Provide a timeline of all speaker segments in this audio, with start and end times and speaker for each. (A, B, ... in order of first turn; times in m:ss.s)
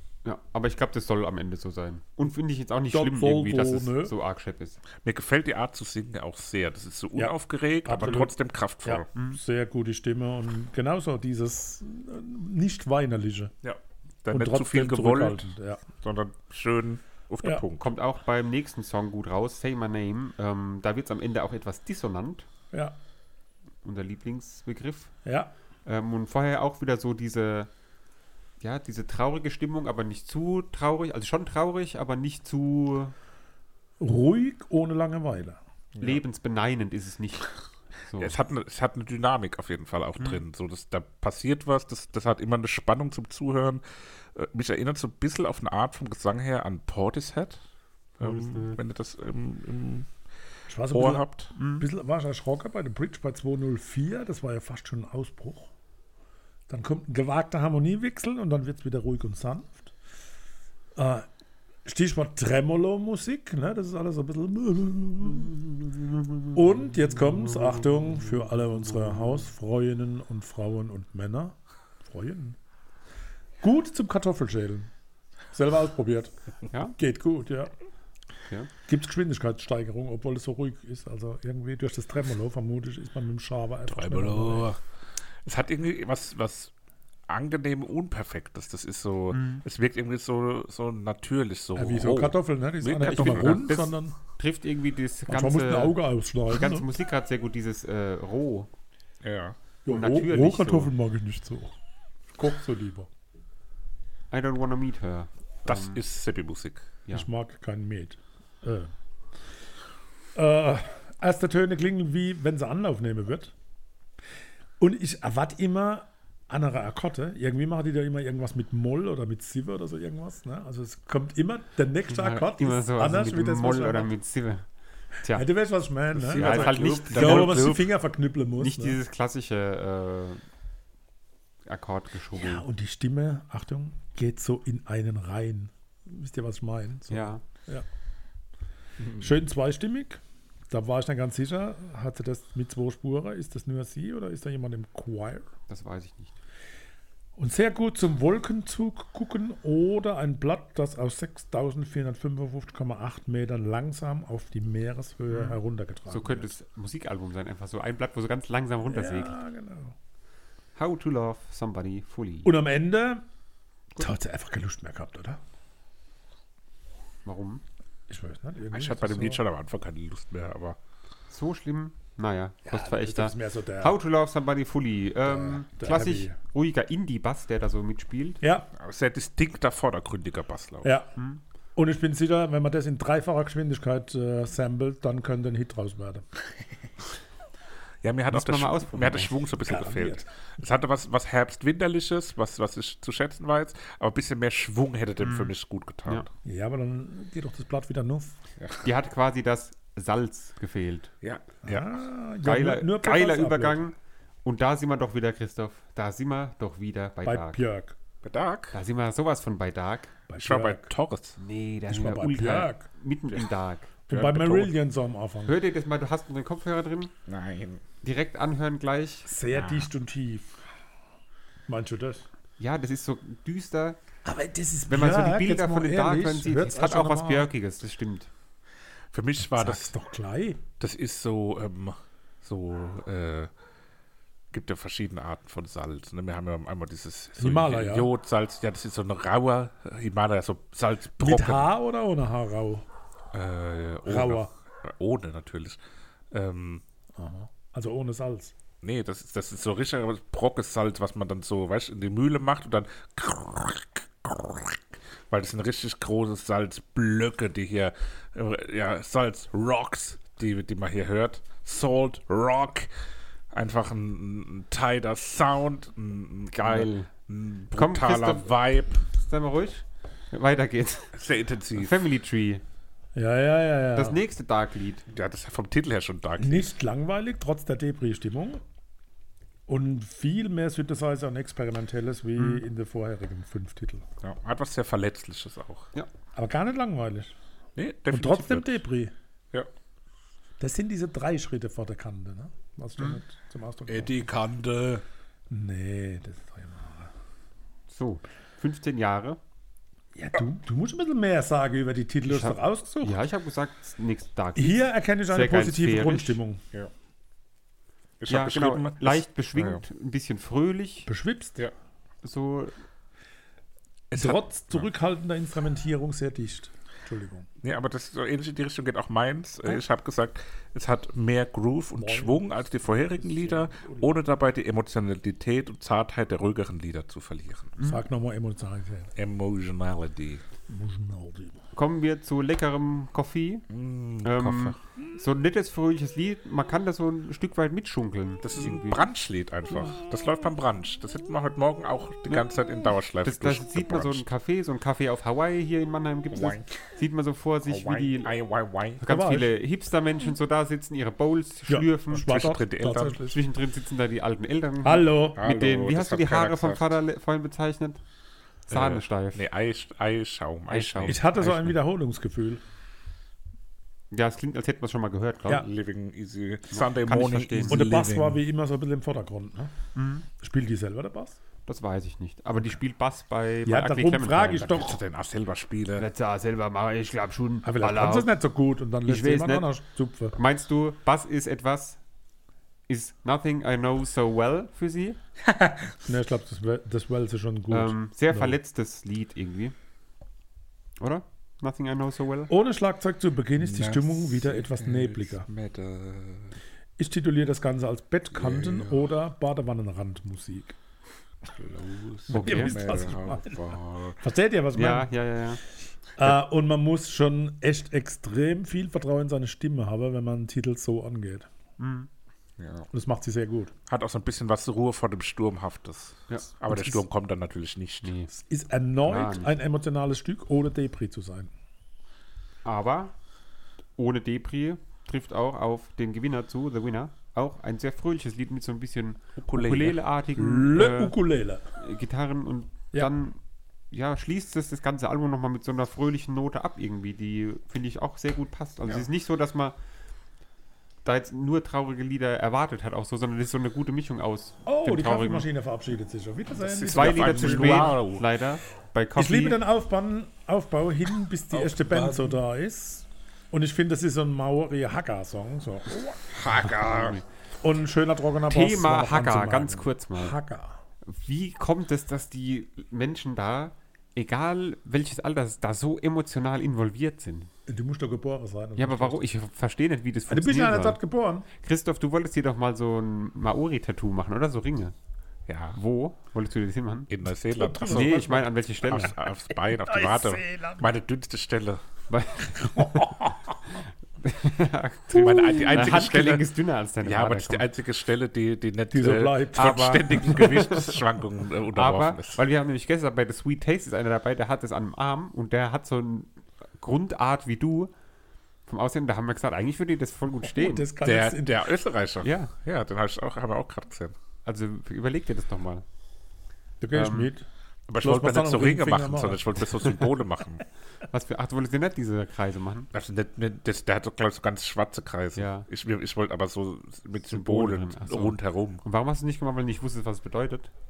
0:00.2-0:04.8 A
0:02.9-0:04.1 B
0:05.0-0:09.1 C
0:07.2-0:13.5 B
0:13.6-0:17.9 C
0:14.3-0:15.8 B
0:17.8-0:22.5 A
0:23.8-0:25.1 A
0:25.2-0:25.5 B
0:25.9-0:27.7 A
0:28.6-0:33.1 A
0:34.0-0:35.6 B
0:36.0-0:36.2 C
0:36.0-0:37.5 A
0:38.1-0:38.4 A
0:38.2-0:47.6 C
0:48.2-0:50.1 C
0:48.2-0:48.8 A
0:50.7-0:55.7 B
0:50.9-0:51.5 C
0:51.6-0:51.9 A
0:56.7-0:59.9 B
1:01.0-1:01.3 B
1:01.9-1:05.6 B
1:06.5-1:12.6 B
1:13.6-1:14.9 B
1:15.5-1:16.3 B
1:16.7-1:17.0 A
1:17.0-1:17.7 B
1:18.9-1:24.7 B
1:23.9-1:24.8 C
1:25.4-1:26.7 C
1:27.3-1:33.7 C
1:29.3-1:29.6 A
1:31.8-1:34.2 B
1:32.8-1:36.0 A
1:35.3-1:36.9 B
1:36.5-1:38.7 A
1:39.2-1:39.6 C
1:39.8-1:41.7 B
1:39.9-1:40.9 A
1:42.3-1:43.1 B
1:44.3-1:46.0 A
1:45.7-1:46.9 C
1:47.1-1:48.9 B
1:50.4-1:53.5 B
1:54.8-2:04.1 B
2:02.1-2:04.6 A
2:05.2-2:05.5 A
2:05.4-2:09.0 B
2:06.2-2:07.6 A
2:06.3-2:07.9 C
2:08.6-2:10.4 A
2:11.7-2:12.6 A
2:12.4-2:17.8 B
2:17.1-2:17.4 A
2:19.0-2:19.3 C
2:19.2-2:25.4 B
2:25.7-2:26.4 A
2:27.4-2:36.5 B
2:35.3-2:39.4 A
2:38.9-2:39.9 B
2:40.8-2:42.5 A
2:42.4-2:43.2 B
2:44.0-2:45.4 B
2:47.2-2:47.6 A
2:48.1-2:49.4 B
2:48.7-2:50.8 C
2:51.3-2:58.4 A
2:52.7-2:54.0 B
2:55.3-2:56.4 B
2:58.4-2:58.7 B
2:58.7-3:00.9 C
3:00.8-3:01.1 B
3:01.2-3:01.4 A
3:01.8-3:06.2 B
3:08.0-3:16.3 C
3:08.3-3:09.4 A
3:09.6-3:10.3 B
3:15.2-3:15.5 A
3:16.4-3:18.3 B
3:18.6-3:18.9 C
3:18.8-3:21.1 A
3:21.2-3:22.0 C
3:21.6-3:23.8 B
3:22.4-3:27.6 A
3:27.2-3:28.0 B
3:28.2-3:28.8 C
3:28.7-3:30.1 A
3:30.3-3:30.9 B
3:30.4-3:31.4 C
3:31.4-3:34.0 A
3:31.9-3:32.9 B
3:34.1-3:34.7 C
3:34.1-3:35.6 B
3:35.5-3:37.1 A
3:37.3-3:37.8 C
3:38.0-3:39.3 A
3:39.3-3:40.6 B
3:39.5-3:39.9 C
3:41.7-3:42.3 B
3:42.6-3:44.0 A
3:44.2-3:47.5 B
3:44.9-3:48.3 A
3:49.1-3:49.9 C
3:49.5-3:50.6 B
3:50.8-3:53.5 C
3:54.5-4:01.7 C
3:57.4-3:58.1 B
4:01.2-4:02.8 B
4:03.3-4:05.8 C
4:04.0-4:04.5 B
4:06.3-4:06.8 C
4:07.2-4:08.5 B
4:08.8-4:22.9 C
4:23.5-4:29.0 C
4:26.5-4:27.1 A
4:27.7-4:28.5 A
4:29.1-4:31.2 A
4:31.1-4:32.0 C
4:31.7-4:32.6 A
4:33.2-4:34.2 B
4:34.0-4:35.1 A
4:35.1-4:36.7 C
4:36.4-4:38.6 B
4:39.7-4:44.0 B
4:42.4-4:42.6 A
4:44.2-4:45.9 C
4:46.4-4:47.3 B
4:47.8-4:48.7 C
4:48.1-4:49.1 B
4:50.6-4:54.3 B
4:53.9-4:55.0 C
4:55.5-4:57.1 B
4:57.9-4:59.4 A
5:00.2-5:03.2 B
5:02.2-5:06.4 A
5:04.6-5:06.6 B
5:08.2-5:09.8 C
5:08.3-5:11.1 A
5:11.1-5:11.6 B
5:12.2-5:12.8 A
5:14.1-5:14.9 C
5:14.1-5:17.5 B
5:17.6-5:27.7 C
5:22.0-5:24.2 B
5:27.8-5:28.0 A
5:27.8-5:29.1 B
5:29.2-5:30.4 C
5:30.7-5:31.6 B
5:31.7-5:33.7 A
5:33.7-5:34.8 C
5:34.2-5:39.0 A
5:38.4-5:44.3 C
5:43.2-5:48.3 A
5:46.3-5:46.9 C
5:47.6-5:49.0 C
5:49.0-5:52.3 A
5:49.1-5:49.5 B
5:51.7-5:53.4 B
5:52.1-5:53.2 C
5:53.3-5:58.0 A
5:54.8-5:55.5 B
5:55.4-5:57.0 C
5:58.7-5:59.4 A
5:58.7-6:01.8 C
6:00.7-6:01.2 A
6:01.0-6:02.6 B
6:04.1-6:05.7 A
6:05.5-6:08.4 C
6:06.7-6:07.8 A
6:07.7-6:09.7 B
6:10.0-6:10.3 A
6:10.4-6:11.4 B
6:11.7-6:14.8 A
6:13.6-6:15.0 B
6:14.6-6:16.1 C
6:16.0-6:18.3 A
6:17.6-6:20.4 B
6:19.1-6:19.7 A
6:20.4-6:22.0 A
6:22.9-6:25.2 A
6:25.4-6:26.0 C
6:26.0-6:28.6 B
6:27.7-6:29.8 A
6:31.0-6:32.5 A
6:32.5-6:35.5 B
6:33.6-6:36.6 C
6:37.0-6:40.8 B
6:38.3-6:39.1 C
6:41.5-6:44.2 C
6:42.3-6:43.6 B
6:42.3-6:42.7 A
6:44.2-6:45.1 B
6:44.7-6:45.6 A
6:46.2-6:51.5 B
6:51.8-6:52.1 A
6:52.6-6:52.9 C
6:52.9-6:53.7 B
6:53.9-6:58.2 C
6:56.6-6:57.0 B
6:58.0-6:58.3 A
6:58.3-7:01.5 B
6:59.1-6:59.6 A
7:02.6-7:03.1 A
7:04.0-7:11.1 A
7:09.4-7:10.0 C
7:10.4-7:11.6 B
7:11.8-7:13.4 A
7:13.9-7:19.8 A
7:21.0-7:25.5 A
7:24.7-7:27.9 B
7:26.6-7:28.2 C
7:26.9-7:29.6 A
7:29.2-7:36.3 B
7:31.5-7:32.4 C
7:36.2-7:37.2 C
7:36.6-7:37.2 A
7:37.6-7:40.8 B
7:38.5-7:40.4 A
7:41.0-7:47.5 A
7:47.7-7:49.3 B
7:48.8-7:51.0 A
7:50.3-7:51.5 B
7:51.6-7:54.9 A
7:55.5-7:55.8 C
7:55.8-7:57.1 A
7:57.1-7:58.3 C
7:57.5-8:00.9 B
7:57.8-7:59.2 A
7:58.8-8:01.8 C
8:02.1-8:07.7 A
8:02.6-8:03.4 B
8:05.1-8:06.5 C
8:07.0-8:12.4 C
8:08.9-8:10.2 B
8:09.6-8:11.0 A
8:11.7-8:17.9 A
8:18.7-8:20.9 A
8:20.4-8:21.7 B
8:21.0-8:24.2 C
8:22.2-8:22.5 A
8:24.4-8:25.8 A
8:26.8-8:27.5 B
8:26.9-8:27.3 A
8:27.9-8:30.6 C
8:28.0-8:29.6 B
8:31.1-8:32.9 A
8:32.9-8:38.8 C
8:35.4-8:35.7 A
8:37.3-8:40.7 A